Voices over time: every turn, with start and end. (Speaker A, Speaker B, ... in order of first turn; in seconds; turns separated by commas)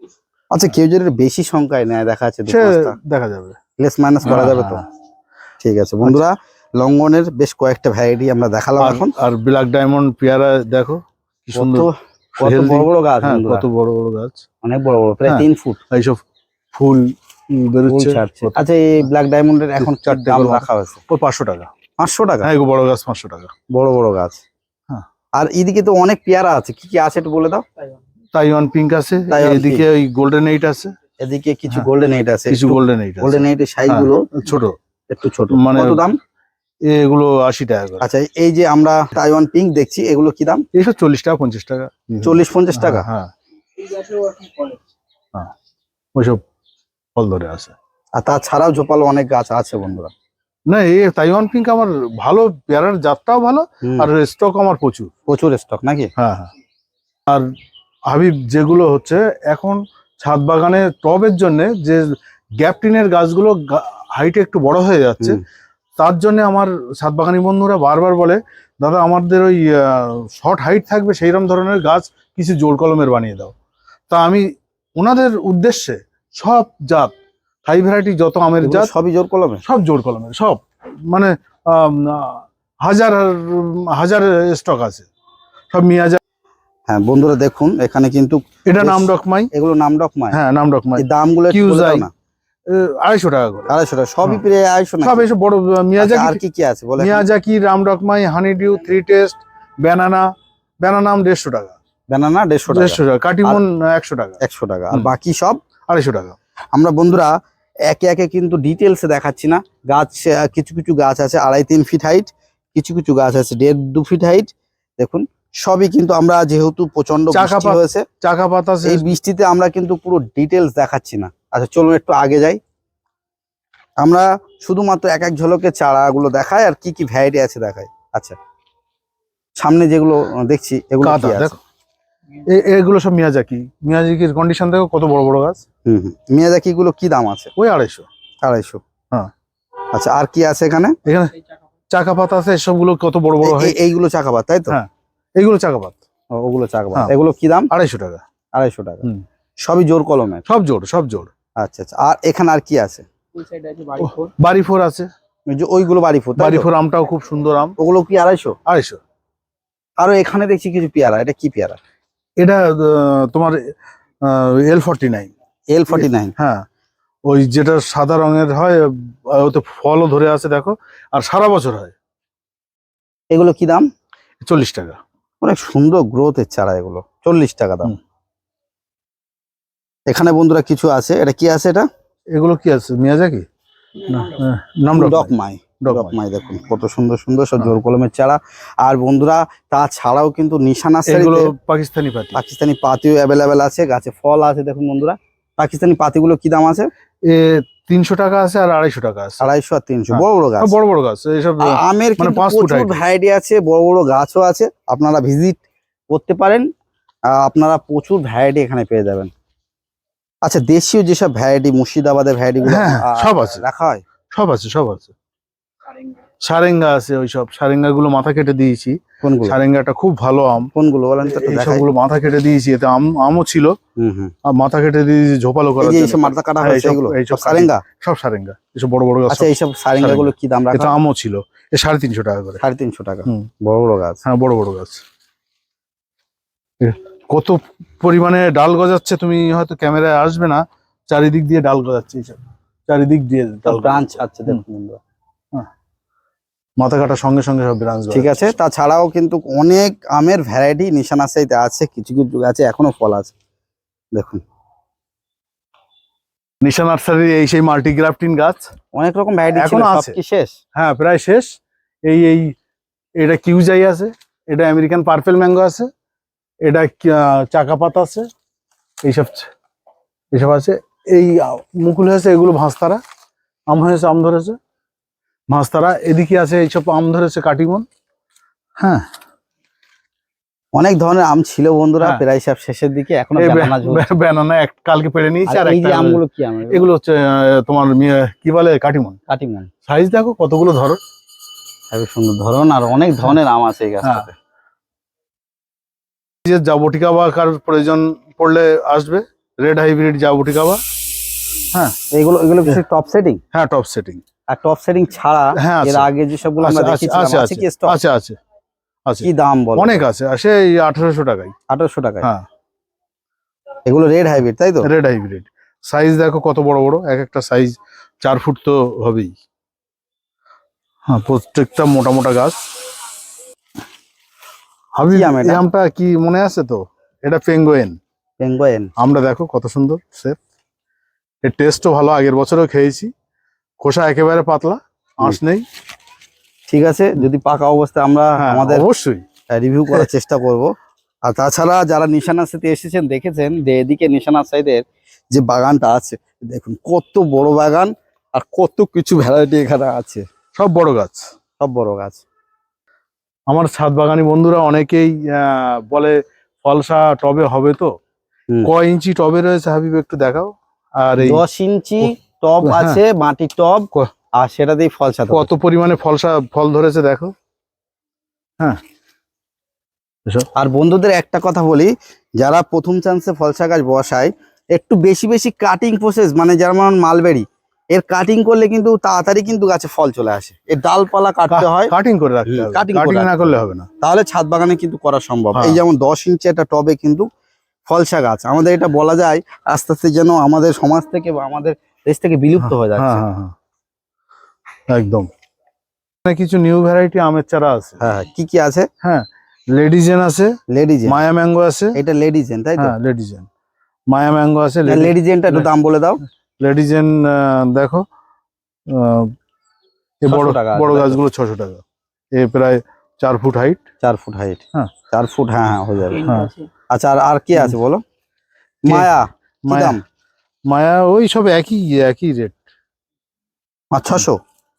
Speaker A: 0.5-3.0, Speaker B: 2.5-3.6, Speaker A: 3.8-4.8, Speaker B: 4.2-4.8, Speaker A: 5.6-9.1, Speaker B: 8.8-14.4, Speaker A: 11.5-13.7, Speaker A: 14.6-15.8, Speaker B: 15.2-16.2, Speaker B: 16.7-18.6, Speaker A: 17.9-21.0, Speaker B: 19.8-21.7, Speaker A: 22.0-22.5, Speaker B: 22.4-23.5, Speaker A: 23.7-24.4, Speaker A: 25.4-27.6, Speaker B: 28.3-30.9, Speaker A: 29.3-29.8, Speaker A: 31.2-34.3, Speaker B: 32.5-34.8, Speaker A: 35.1-36.2, Speaker B: 35.5-36.1, Speaker B: 36.8-38.1, Speaker A: 38.0-40.6, Speaker B: 40.7-43.3, Speaker A: 42.2-43.0, Speaker C: 43.8-44.8, Speaker B: 46.1-46.4, Speaker B: 47.1-47.7, Speaker A: 48.2-50.1, Speaker B: 50.7-55.1, Speaker A: 53.8-54.1, Speaker A: 55.3-56.1, Speaker B: 56.2-56.5, Speaker B: 58.1-65.4, Speaker B: 66.0-73.5, Speaker B: 74.1-77.1, Speaker B: 77.6-78.9, Speaker A: 78.6-79.6, Speaker B: 79.6-85.1, Speaker B: 85.7-86.2, Speaker A: 86.9-90.4, Speaker B: 88.6-89.5, Speaker B: 90.3-92.1, Speaker A: 91.0-92.1, Speaker B: 92.7-93.7, Speaker A: 93.7-95.3, Speaker B: 95.0-96.4, Speaker A: 96.0-97.3, Speaker B: 97.0-101.8, Speaker A: 102.1-103.6, Speaker B: 102.7-104.4, Speaker A: 104.4-105.6, Speaker B: 105.9-106.3, Speaker A: 106.7-118.0, Speaker B: 117.3-119.1, Speaker A: 118.8-122.6, Speaker A: 124.0-128.4, Speaker A: 129.6-131.6, Speaker B: 131.0-131.6, Speaker B: 132.4-135.6, Speaker A: 135.8-137.5, Speaker B: 137.6-138.1, Speaker A: 138.4-138.8, Speaker A: 139.9-141.0, Speaker B: 141.0-141.3, Speaker B: 141.9-143.8, Speaker A: 143.4-144.8, Speaker B: 144.7-146.0, Speaker A: 146.3-147.7, Speaker B: 147.7-148.2, Speaker A: 148.5-149.1, Speaker A: 149.6-150.4, Speaker B: 150.4-151.3, Speaker A: 151.6-153.1, Speaker C: 153.3-154.3, Speaker B: 154.0-155.1, Speaker A: 155.5-156.7, Speaker B: 156.4-157.7, Speaker A: 157.8-158.6, Speaker B: 158.7-159.0, Speaker A: 160.0-161.8, Speaker B: 162.4-163.7, Speaker B: 164.2-165.3, Speaker A: 165.7-166.3, Speaker B: 165.9-166.6, Speaker B: 167.2-171.9, Speaker A: 173.3-173.9, Speaker B: 174.4-175.0, Speaker A: 175.4-177.9, Speaker A: 180.1-181.9, Speaker B: 182.3-183.5, Speaker B: 184.1-185.3, Speaker A: 184.9-191.5, Speaker B: 185.8-186.2, Speaker B: 191.1-192.4, Speaker A: 192.3-196.9, Speaker B: 197.2-199.4, Speaker A: 199.4-200.7, Speaker B: 200.1-203.0, Speaker A: 201.6-206.7, Speaker A: 207.3-209.3, Speaker A: 210.4-214.0, Speaker B: 212.7-213.6, Speaker B: 214.3-215.1, Speaker B: 216.4-220.7, Speaker A: 219.2-219.6, Speaker A: 220.7-221.9, Speaker B: 221.2-223.8, Speaker A: 224.0-224.3, Speaker B: 224.4-232.6, Speaker A: 225.8-227.8, Speaker A: 229.3-230.9, Speaker A: 232.6-234.2, Speaker B: 234.2-235.0, Speaker B: 236.8-244.6, Speaker A: 243.7-245.0, Speaker B: 246.8-248.5, Speaker A: 248.1-253.3, Speaker A: 254.1-254.4, Speaker B: 256.6-258.7, Speaker A: 258.9-260.6, Speaker B: 259.5-260.2, Speaker B: 260.7-262.6, Speaker B: 263.2-265.9, Speaker B: 266.6-268.3, Speaker B: 269.0-269.5, Speaker B: 270.3-273.0, Speaker B: 273.7-274.6, Speaker B: 275.5-277.9, Speaker B: 278.8-279.1, Speaker A: 280.7-284.1, Speaker B: 283.4-289.2, Speaker A: 285.5-286.9, Speaker A: 289.3-289.7, Speaker B: 289.9-291.0, Speaker A: 291.9-294.3, Speaker B: 294.0-294.3, Speaker B: 296.4-300.8, Speaker B: 301.7-302.0, Speaker A: 302.1-303.4, Speaker B: 303.5-304.2, Speaker A: 304.5-308.0, Speaker B: 305.6-308.4, Speaker B: 309.1-311.5, Speaker A: 309.2-310.0, Speaker A: 311.7-312.3, Speaker A: 313.9-314.9, Speaker B: 314.8-319.4, Speaker B: 321.1-322.7, Speaker B: 324.9-328.0, Speaker A: 325.1-325.6, Speaker A: 328.4-328.9, Speaker B: 329.0-330.4, Speaker B: 331.4-333.1, Speaker B: 333.8-335.6, Speaker A: 336.7-338.9, Speaker B: 338.4-339.2, Speaker A: 339.5-340.7, Speaker A: 341.2-350.2, Speaker B: 350.5-351.3, Speaker A: 351.6-352.2, Speaker B: 353.5-357.9, Speaker B: 358.6-361.4, Speaker A: 361.2-365.5, Speaker B: 362.6-363.0, Speaker B: 365.3-367.3, Speaker A: 370.5-381.9, Speaker B: 381.5-383.9, Speaker A: 382.5-387.3, Speaker B: 385.5-385.8, Speaker A: 387.9-393.2, Speaker B: 392.6-393.5, Speaker B: 394.9-395.3, Speaker B: 396.2-398.1, Speaker A: 398.0-398.9, Speaker B: 399.0-400.5, Speaker A: 400.7-401.2, Speaker B: 401.1-401.9, Speaker A: 401.9-402.9, Speaker B: 402.8-403.5, Speaker B: 404.1-405.7, Speaker A: 404.9-406.2, Speaker B: 406.6-408.0, Speaker B: 408.9-409.3, Speaker B: 410.2-413.8, Speaker A: 410.3-411.2, Speaker A: 414.0-416.3, Speaker C: 416.1-416.7, Speaker B: 416.2-416.5, Speaker A: 416.9-418.0, Speaker A: 418.8-420.0, Speaker B: 419.7-419.9, Speaker B: 420.7-422.6, Speaker A: 423.9-424.4